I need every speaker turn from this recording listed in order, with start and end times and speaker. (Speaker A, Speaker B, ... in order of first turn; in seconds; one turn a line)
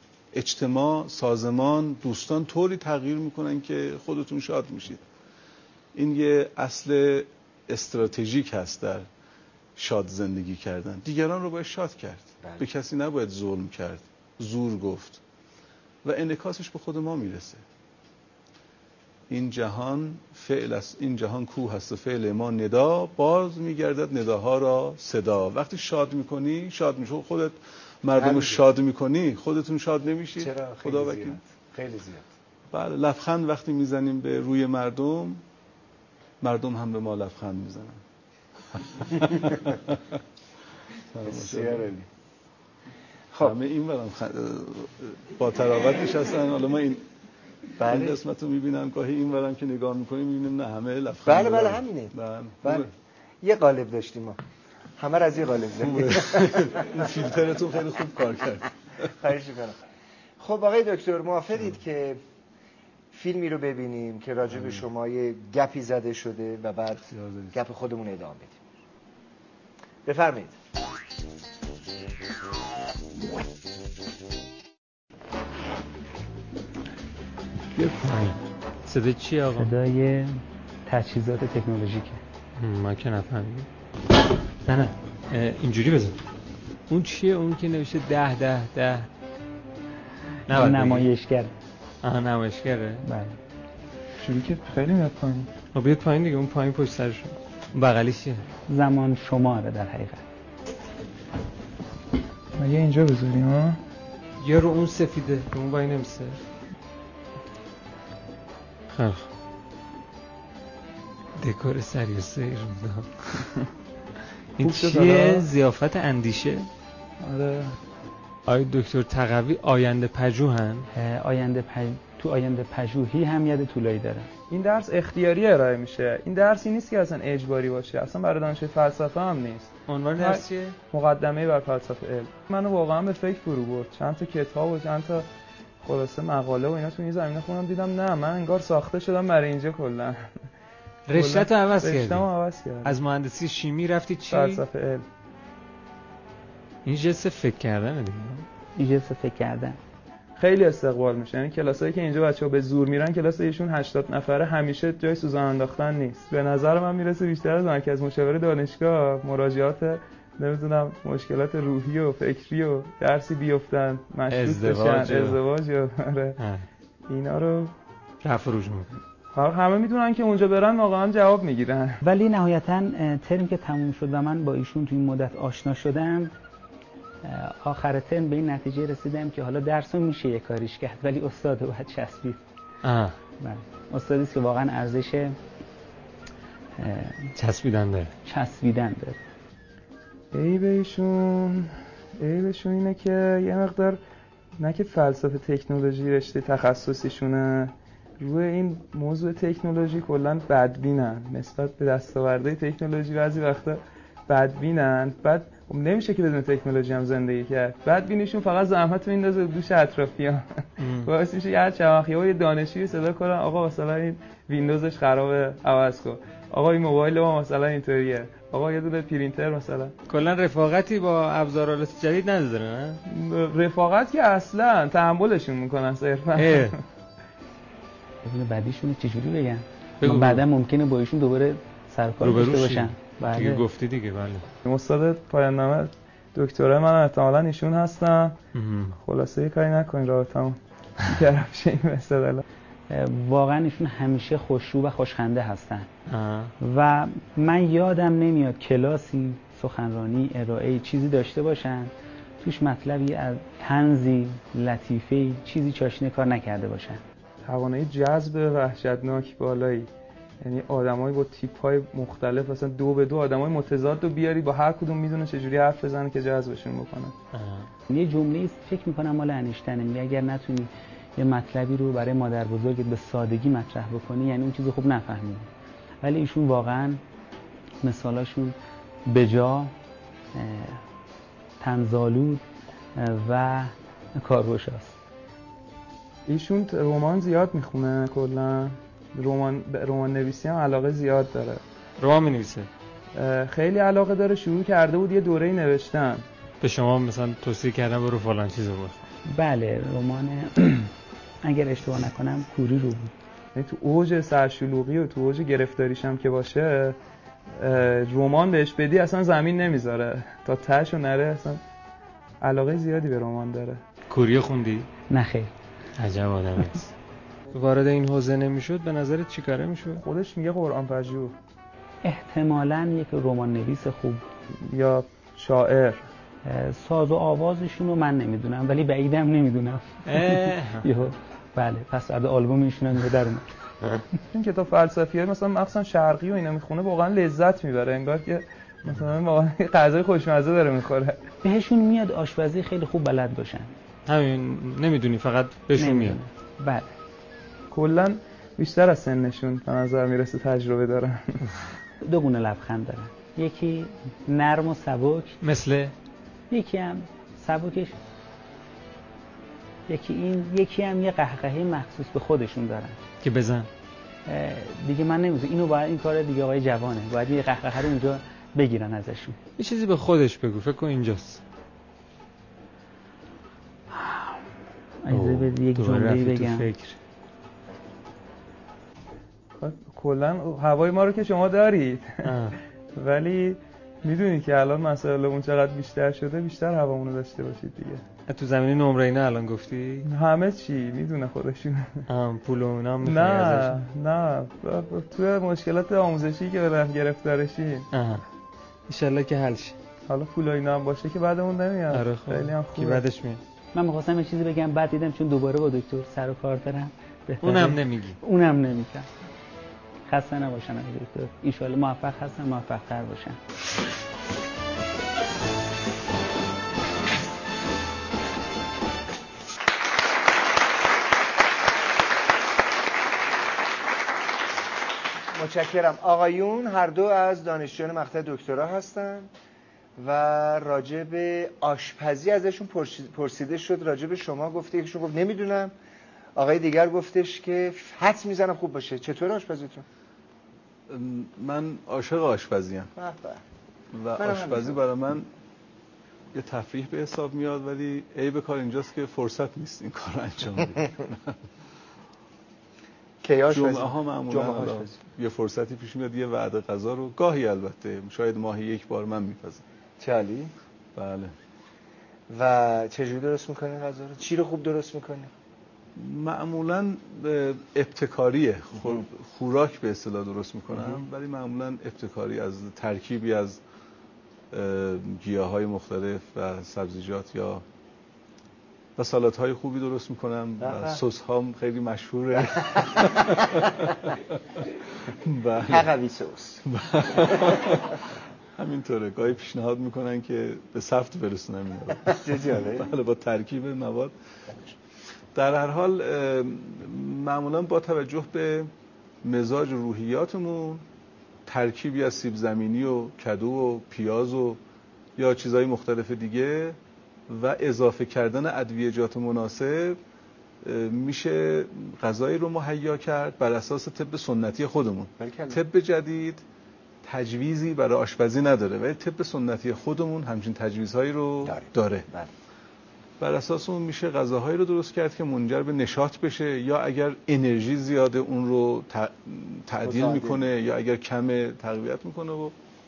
Speaker A: 0.3-5.0
Speaker A: 5.9-9.1
Speaker A: 9.8-15.2
Speaker A: 16.0-17.6
Speaker A: 19.3-31.4
Speaker B: 28.2-28.6
Speaker B: 30.4-32.3
Speaker A: 32.7-35.4
Speaker A: 36.4-38.0
Speaker A: 38.7-40.2
Speaker A: 41.1-41.9
Speaker B: 41.2-42.1
Speaker A: 43.4-47.0
Speaker B: 47.8-48.2
Speaker A: 47.8-52.9
Speaker B: 51.2-52.9
Speaker B: 53.4-54.4
Speaker B: 55.0-57.0
Speaker A: 55.8-59.1
Speaker B: 59.2-59.8
Speaker B: 60.4-62.2
Speaker B: 63.1-68.6
Speaker A: 67.1-67.5
Speaker B: 70.0-70.5
Speaker C: 77.9-79.7
Speaker D: 79.5-82.2
Speaker C: 82.6-83.7
Speaker C: 84.7-86.2
Speaker C: 86.9-89.1
Speaker C: 90.5-91.1
Speaker D: 90.5-91.5
Speaker C: 92.0-93.0
Speaker D: 93.0-93.3
Speaker E: 94.2-95.5
Speaker C: 95.7-98.4
Speaker D: 98.7-100.2
Speaker E: 102.6-103.8
Speaker C: 104.4-106.3
Speaker C: 108.9-109.3
Speaker C: 111.4-113.1
Speaker C: 114.6-116.7
Speaker E: 114.6-115.4
Speaker A: 117.3-117.6
Speaker C: 118.5-120.9
Speaker D: 120.9-124.3
Speaker E: 124.5-135.3
Speaker C: 129.9-130.8
Speaker E: 135.8-140.3
Speaker C: 141.1-142.3
Speaker E: 141.1-143.0
Speaker C: 142.8-144.6
Speaker E: 144.3-145.1
Speaker C: 146.8-148.4
Speaker D: 148.8-149.8
Speaker E: 150.4-166.4
Speaker C: 164.3-165.4
Speaker C: 166.4-166.7
Speaker E: 167.1-167.7
Speaker C: 168.2-169.0
Speaker E: 169.3-172.0
Speaker D: 172.0-176.3
Speaker D: 177.2-182.4
Speaker C: 182.8-183.2
Speaker D: 183.4-185.4
Speaker D: 186.8-187.3
Speaker C: 187.3-188.1
Speaker D: 188.2-189.2
Speaker E: 190.3-194.0
Speaker E: 194.6-219.9
Speaker C: 210.8-211.1
Speaker C: 220.1-223.0
Speaker E: 223.1-226.8
Speaker C: 226.3-226.8
Speaker D: 228.2-233.6
Speaker C: 230.0-230.4
Speaker C: 232.2-234.4
Speaker E: 234.6-238.4
Speaker C: 238.5-239.0
Speaker E: 239.0-240.6
Speaker E: 241.1-242.4
Speaker D: 242.9-245.9
Speaker C: 246.1-246.5
Speaker D: 246.6-257.0
Speaker E: 257.4-259.9
Speaker E: 260.4-267.1
Speaker C: 267.3-267.7
Speaker D: 267.9-275.5
Speaker D: 276.0-277.0
Speaker D: 277.8-278.6
Speaker D: 279.1-279.7
Speaker D: 280.3-280.8
Speaker D: 281.6-282.4
Speaker D: 283.0-285.0
Speaker E: 286.3-291.6
Speaker C: 292.0-292.7
Speaker E: 293.1-296.2
Speaker C: 296.6-299.0
Speaker D: 299.3-300.9
Speaker D: 301.4-303.1
Speaker E: 303.5-307.0
Speaker E: 307.6-311.6
Speaker E: 312.4-313.8
Speaker C: 314.1-314.9
Speaker D: 315.1-315.5
Speaker C: 316.0-316.9
Speaker C: 317.5-320.0
Speaker E: 320.0-321.3
Speaker D: 322.0-324.2
Speaker E: 324.7-326.1
Speaker D: 326.4-333.5
Speaker C: 330.1-330.8
Speaker E: 334.3-341.2
Speaker D: 341.4-343.7
Speaker C: 344.1-346.2
Speaker D: 345.8-346.9
Speaker E: 347.7-351.6
Speaker D: 352.0-355.4
Speaker C: 355.4-355.9
Speaker D: 356.5-358.0
Speaker D: 359.9-363.0
Speaker C: 363.2-363.7
Speaker D: 364.3-369.4
Speaker C: 369.6-371.4
Speaker D: 373.9-374.4
Speaker D: 375.0-376.7
Speaker C: 375.1-377.0
Speaker E: 379.6-388.0
Speaker C: 382.2-382.6
Speaker C: 388.3-390.1
Speaker E: 390.0-392.0
Speaker C: 392.1-393.8
Speaker E: 393.0-397.9
Speaker C: 397.9-398.2
Speaker C: 398.9-399.8
Speaker E: 400.1-403.0
Speaker C: 401.9-403.4
Speaker D: 403.7-409.1
Speaker C: 407.4-408.2
Speaker D: 410.1-413.4
Speaker B: 425.3-429.3
Speaker B: 430.0-435.7
Speaker B: 436.3-439.8
Speaker A: 440.9-442.9
Speaker B: 442.9-443.4
Speaker A: 443.9-445.3
Speaker B: 444.2-444.8
Speaker A: 446.3-451.4
Speaker B: 453.2-454.9
Speaker A: 453.5-459.6
Speaker B: 460.0-460.5
Speaker A: 460.9-461.3
Speaker B: 462.3-465.3
Speaker A: 465.9-473.6
Speaker B: 470.7-471.0
Speaker A: 474.5-477.6
Speaker A: 479.0-485.9
Speaker B: 480.6-481.0
Speaker B: 482.6-483.7
Speaker B: 485.6-486.6
Speaker A: 486.6-494.1
Speaker B: 487.1-487.6
Speaker B: 492.0-492.9
Speaker A: 495.3-498.7
Speaker A: 499.2-500.8
Speaker A: 501.5-504.6
Speaker A: 505.2-506.8
Speaker A: 507.3-510.0
Speaker A: 510.6-516.4
Speaker B: 515.2-515.6
Speaker A: 517.0-522.0
Speaker B: 521.4-522.3
Speaker A: 523.2-532.5
Speaker B: 529.8-530.5